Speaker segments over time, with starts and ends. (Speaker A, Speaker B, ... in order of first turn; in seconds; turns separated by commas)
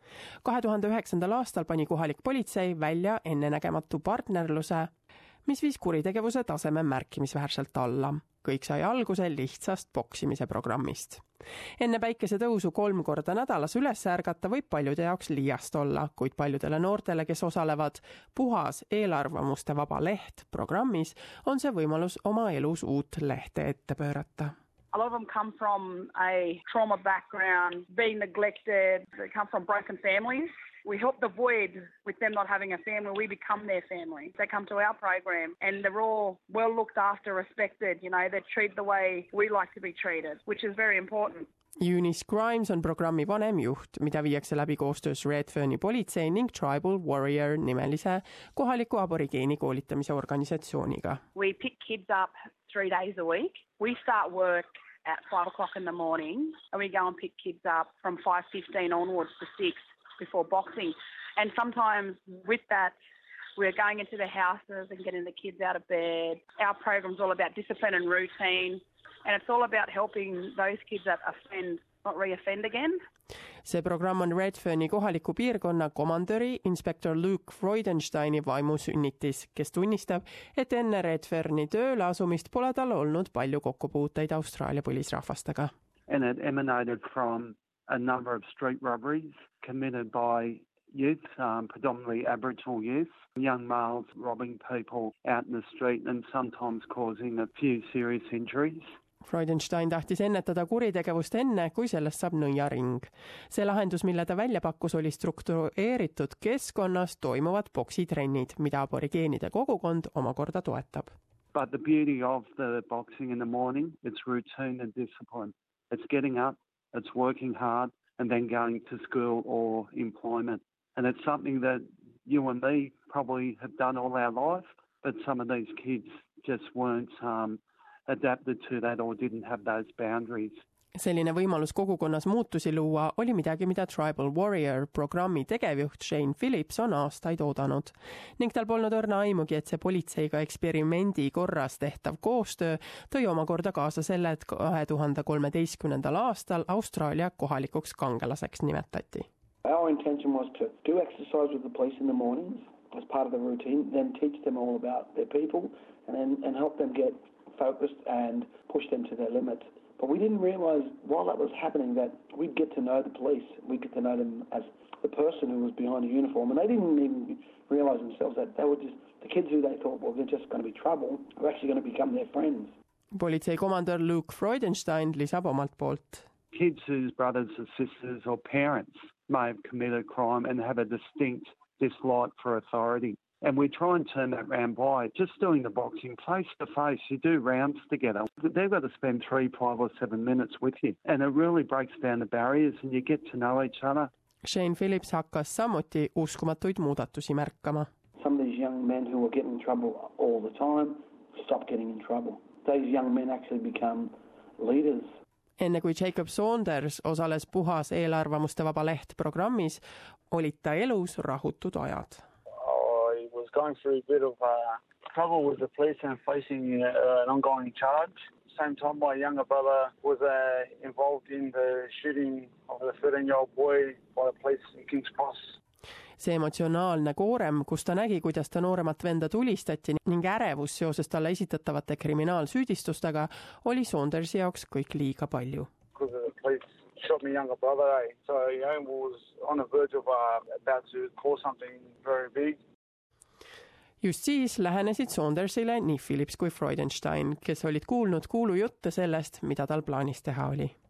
Speaker A: 0.4-4.9, Speaker A: 5.5-11.2, Speaker A: 11.8-24.5, Speaker B: 24.9-41.5, Speaker A: 41.8-51.2, Speaker B: 51.3-63.0, Speaker B: 63.5-73.0, Speaker A: 73.6-85.7, Speaker C: 86.1-98.8, Speaker A: 99.2-111.1, Speaker C: 111.5-130.6, Speaker A: 130.9-149.3, Speaker D: 149.6-172.7, Speaker A: 173.1-176.2, Speaker C: 176.5-194.1, Speaker A: 194.4-197.9, Speaker D: 198.2-205.2, Speaker A: 205.6-212.2, Speaker E: 212.6-225.5, Speaker A: 226.2-235.7, Speaker E: 235.9-242.6, Speaker A: 244.0-250.7